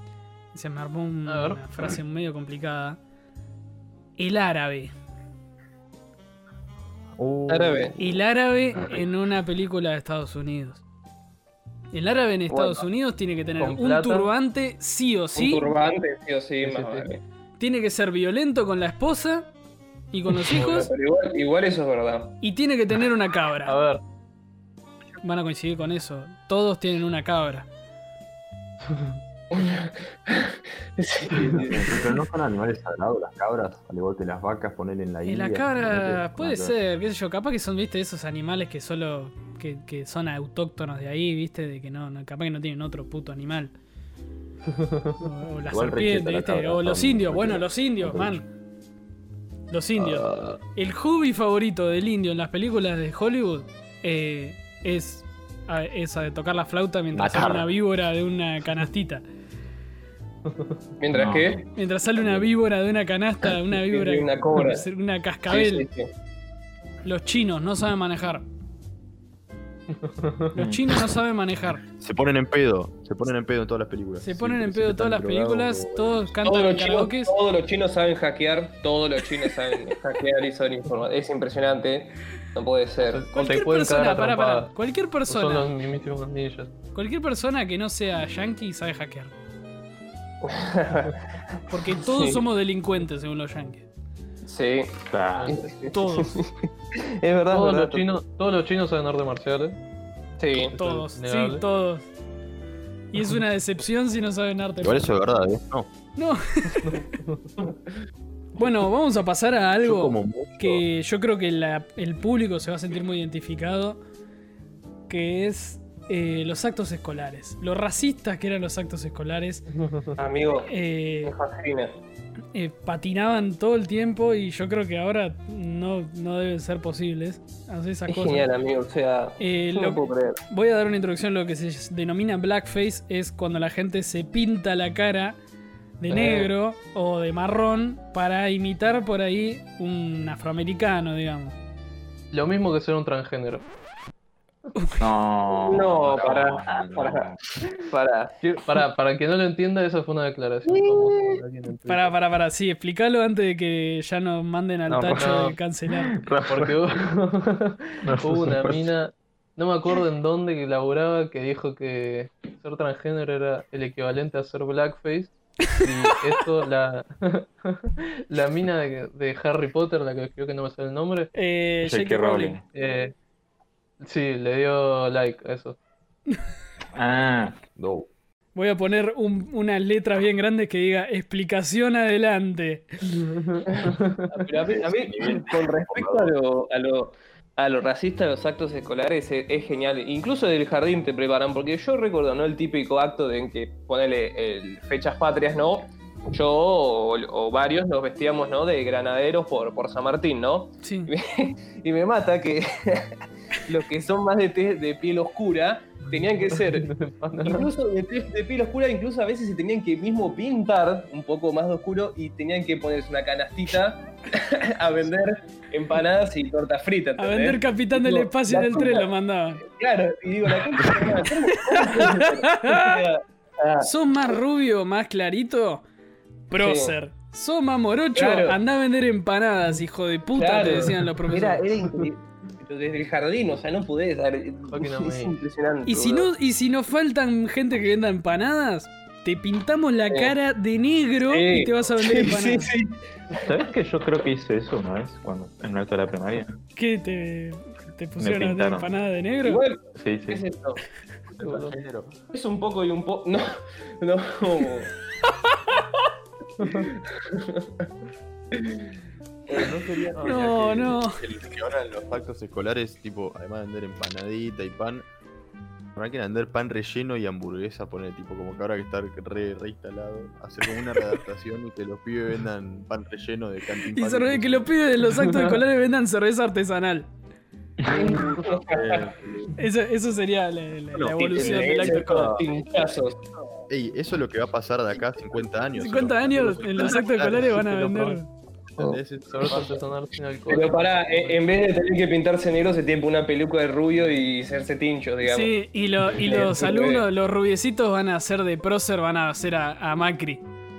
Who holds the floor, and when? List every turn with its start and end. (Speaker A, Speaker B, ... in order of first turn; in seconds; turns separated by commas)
Speaker A: 0.5-3.0, Speaker B: 1.3-1.6, Speaker A: 4.2-4.9, Speaker C: 7.2-8.2, Speaker D: 7.5-8.0, Speaker A: 8.0-10.8, Speaker A: 11.9-15.7, Speaker D: 12.5-12.8, Speaker B: 13.6-14.3, Speaker D: 15.3-17.2, Speaker B: 16.6-17.1, Speaker A: 17.6-19.5, Speaker A: 20.1-20.9, Speaker B: 20.5-20.8, Speaker D: 20.5-22.4, Speaker A: 22.4-23.8, Speaker B: 23.6-24.0, Speaker A: 25.2-27.7, Speaker D: 29.5-32.0, Speaker B: 31.4-31.6, Speaker C: 31.4-36.8, Speaker A: 35.2-43.7, Speaker B: 44.7-45.2, Speaker A: 45.2-48.5, Speaker C: 45.7-48.4, Speaker A: 49.7-59.2, Speaker C: 50.0-50.6, Speaker C: 57.1-57.7, Speaker D: 61.0-61.6, Speaker E: 61.1-61.6, Speaker A: 61.8-65.9, Speaker C: 62.2-62.5, Speaker D: 63.7-64.9, Speaker D: 65.5-66.1, Speaker A: 67.0-68.5, Speaker B: 69.9-70.5, Speaker A: 70.5-71.8, Speaker E: 70.6-70.9, Speaker C: 72.0-76.3, Speaker A: 74.2-77.3, Speaker D: 76.5-83.3, Speaker B: 83.0-84.7, Speaker A: 83.3-85.7, Speaker B: 85.3-86.7, Speaker A: 86.9-89.3, Speaker D: 90.4-92.4, Speaker A: 91.7-93.9, Speaker D: 94.4-98.2, Speaker E: 95.1-95.6, Speaker A: 95.9-96.4, Speaker B: 97.5-99.8, Speaker D: 100.4-100.8, Speaker B: 100.5-101.6, Speaker A: 100.8-102.1, Speaker A: 103.1-105.1, Speaker C: 104.8-105.9, Speaker A: 106.2-107.1, Speaker B: 106.8-107.5, Speaker A: 108.6-114.0, Speaker C: 109.8-110.8, Speaker A: 115.1-119.7, Speaker B: 119.7-120.2, Speaker D: 120.2-120.7, Speaker A: 120.7-121.3, Speaker D: 121.2-122.0, Speaker A: 122.5-128.5, Speaker D: 128.1-130.4, Speaker A: 129.4-135.4, Speaker A: 136.0-141.6, Speaker B: 136.1-136.5, Speaker B: 142.3-143.7, Speaker A: 144.8-145.0, Speaker E: 145.0-147.4, Speaker D: 145.7-147.3, Speaker D: 147.9-148.3, Speaker B: 148.4-152.2, Speaker C: 150.7-151.4, Speaker A: 151.9-156.2, Speaker E: 154.9-155.4, Speaker B: 155.2-155.6, Speaker E: 155.9-156.8, Speaker B: 156.4-171.3, Speaker E: 158.1-158.9, Speaker A: 171.3-172.6, Speaker E: 171.8-172.7, Speaker B: 172.7-173.1, Speaker B: 174.0-175.8, Speaker E: 177.0-177.6, Speaker C: 177.8-178.1, Speaker A: 178.6-182.9, Speaker B: 183.1-184.3, Speaker D: 183.7-206.9, Speaker C: 184.7-186.3, Speaker A: 200.8-201.1, Speaker B: 206.5-207.7, Speaker D: 207.4-219.1, Speaker A: 217.2-219.6, Speaker D: 219.7-223.9, Speaker A: 221.5-222.9, Speaker A: 223.8-225.8, Speaker A: 226.5-231.6, Speaker D: 226.6-226.9, Speaker D: 228.2-228.6, Speaker D: 230.3-236.3, Speaker B: 234.7-235.4, Speaker A: 235.8-242.7, Speaker D: 241.3-243.3, Speaker E: 243.3-246.6, Speaker A: 246.8-249.6, Speaker E: 248.2-248.9, Speaker D: 249.4-250.8, Speaker E: 250.0-250.4, Speaker C: 251.3-252.2, Speaker B: 251.4-251.8, Speaker D: 252.3-254.9, Speaker B: 256.6-256.9, Speaker D: 256.7-257.9, Speaker D: 258.5-258.9, Speaker D: 259.5-260.1, Speaker C: 259.6-265.1, Speaker B: 259.7-260.4, Speaker A: 260.2-261.2, Speaker C: 266.0-274.7, Speaker A: 273.9-277.1, Speaker B: 275.2-275.6, Speaker D: 277.9-279.1, Speaker C: 277.9-279.6, Speaker B: 277.9-278.3, Speaker A: 279.6-282.4, Speaker C: 280.9-282.4, Speaker D: 281.2-283.2, Speaker C: 283.7-287.6, Speaker A: 285.8-288.3, Speaker B: 287.3-288.2, Speaker C: 288.8-289.8, Speaker B: 288.8-291.4, Speaker D: 290.5-295.5, Speaker A: 295.2-300.4, Speaker D: 296.1-297.0